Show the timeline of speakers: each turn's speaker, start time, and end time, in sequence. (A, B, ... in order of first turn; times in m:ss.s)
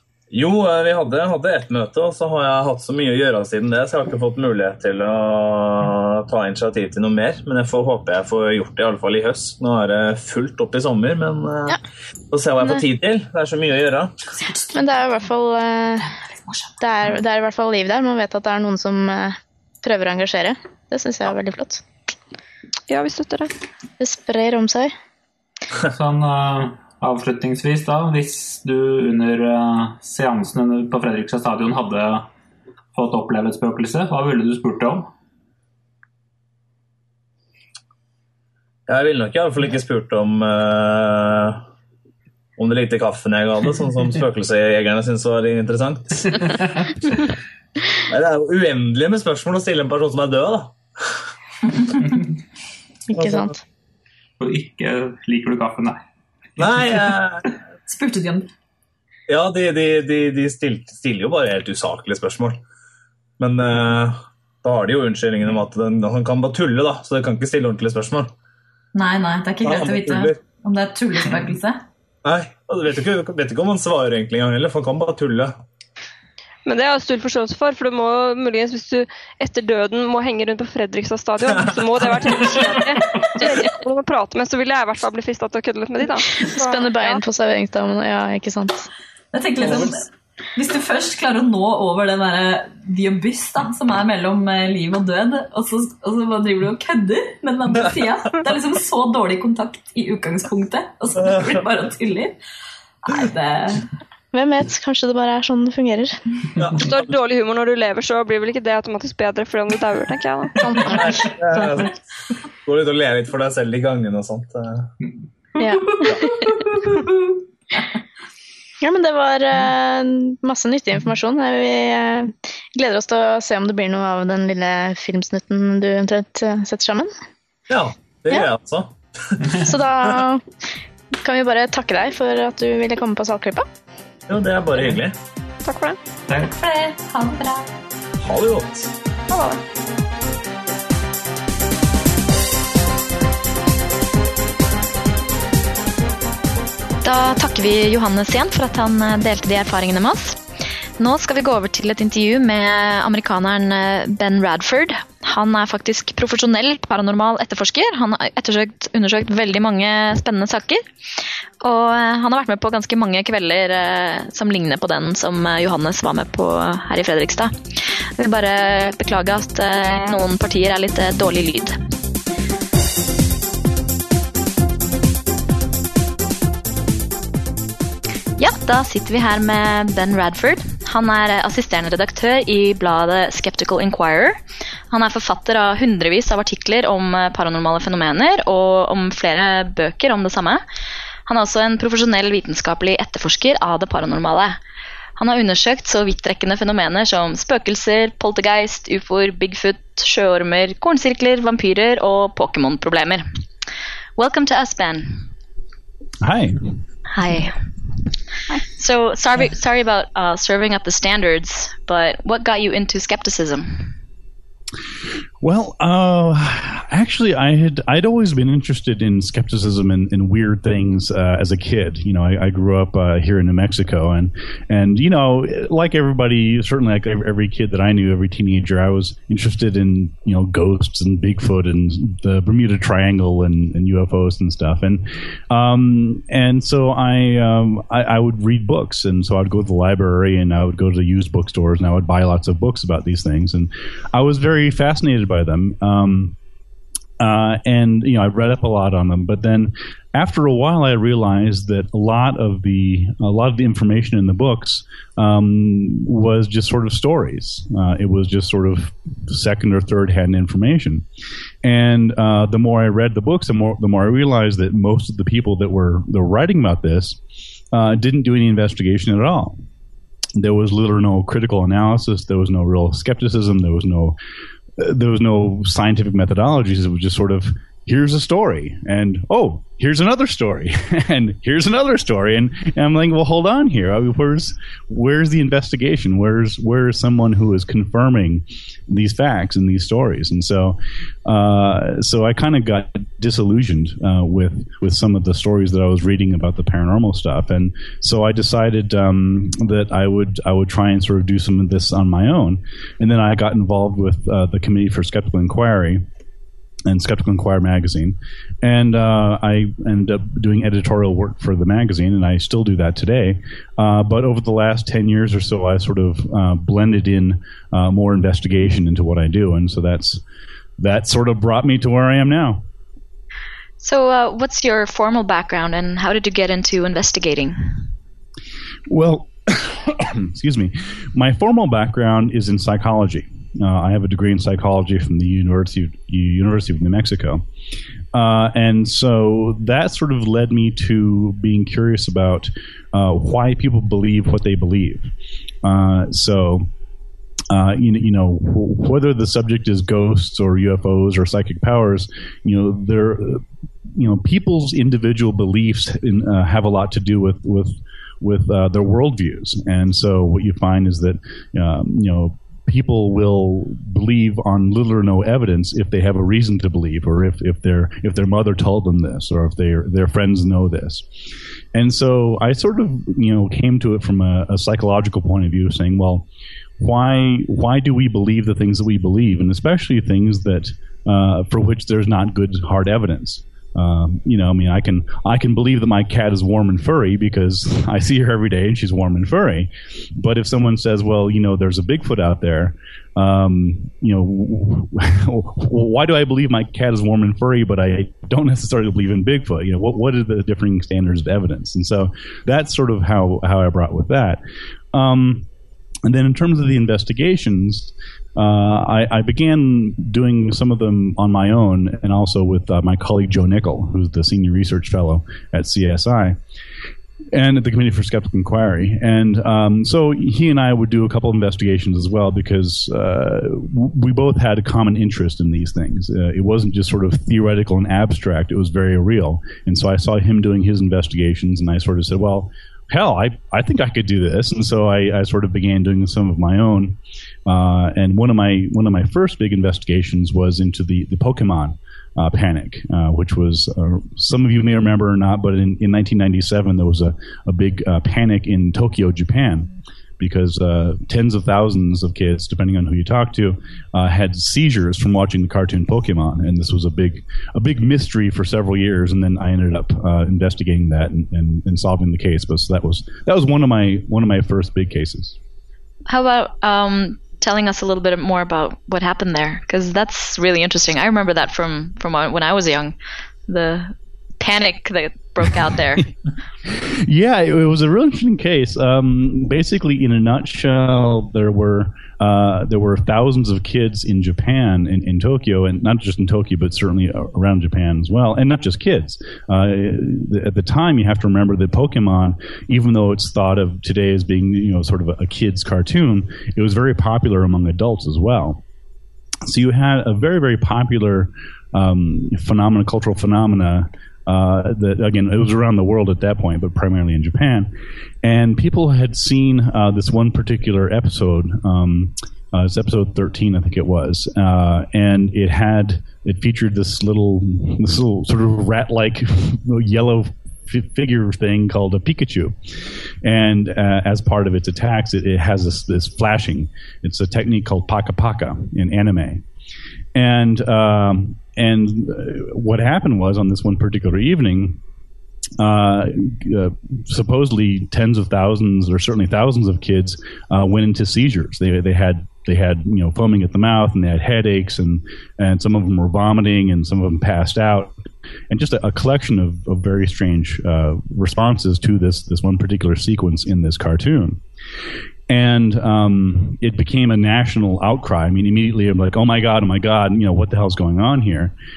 0:00.3-0:11.8 A
0:12.3-0:14.1 A
0:14.7-0:16.1 B
0:16.0-0:16.8 C
0:16.8-0:21.8 B
0:22.9-0:23.5 D
0:24.0-0:24.9 B
0:25.9-0:32.3 E
0:32.9-0:35.1 E
0:38.9-0:41.6 A
0:42.6-0:46.5 A
0:48.1-0:51.2 A
0:53.1-0:53.6 B
0:53.2-0:53.5 A
0:54.4-0:56.0 E
0:56.6-0:56.9 E
0:56.6-0:57.5 A
0:57.9-0:58.5 C
0:59.3-1:02.6 A
1:03.4-1:08.3 A
1:08.9-1:11.8 C
1:09.6-1:10.4 A
1:12.2-1:15.6 A
1:16.7-1:27.2 D
1:26.6-1:28.9 B
1:29.3-1:30.0 C
1:30.6-1:42.4 C
1:41.2-1:41.6 A
1:43.0-1:43.8 C
1:44.3-1:46.2 B
1:46.6-1:47.0 A
1:46.8-1:51.2 D
1:50.8-1:52.0 A
1:52.6-1:54.9 A
1:55.6-1:56.4 B
1:56.7-1:57.1 C
1:58.8-2:07.1 B
2:07.7-2:09.4 A
2:09.6-2:10.4 B
2:11.2-2:13.7 B
2:14.3-2:15.2 A
2:15.6-2:16.0 D
2:16.3-2:16.6 E
2:16.4-2:17.7 C
2:18.2-2:18.9 A
2:19.3-2:19.6 D
2:27.0-2:30.4 F
2:31.0-2:40.8 F
2:41.6-2:47.5 F
2:48.2-2:51.8 F
2:58.4-3:04.4 F
3:04.9-3:10.6 F
3:11.3-3:14.6 F
3:15.2-3:23.3 F
3:24.2-3:25.2 F
3:26.2-3:26.7 G
3:27.1-3:27.6 F
3:28.8-3:33.9 F
3:35.4-4:06.4 G
4:07.2-4:21.0 G
4:21.6-4:27.2 G
4:27.7-4:29.6 G
4:30.4-4:34.2 G
4:34.8-5:06.0 G
5:06.9-5:20.2 G
5:20.8-5:22.6 G
5:23.8-5:27.8 F
5:28.9-5:37.4 G
5:38.1-5:45.1 G
5:45.6-5:46.7 G
5:47.5-5:53.4 G
5:53.9-6:11.1 G
6:11.7-6:16.3 G
6:16.8-6:44.4 G
6:44.9-6:45.5 G
6:46.0-6:56.4 G
6:57.3-7:45.4 G
7:46.1-7:53.0 F
7:53.5-7:56.1 F
7:56.7-8:18.6 G
8:19.4-8:27.7 G
8:28.2-8:42.6 G
8:43.2-8:49.4 G
8:50.2-8:54.8 G
8:55.6-9:08.0 G
9:08.5-9:14.4 G
9:15.3-9:21.5 G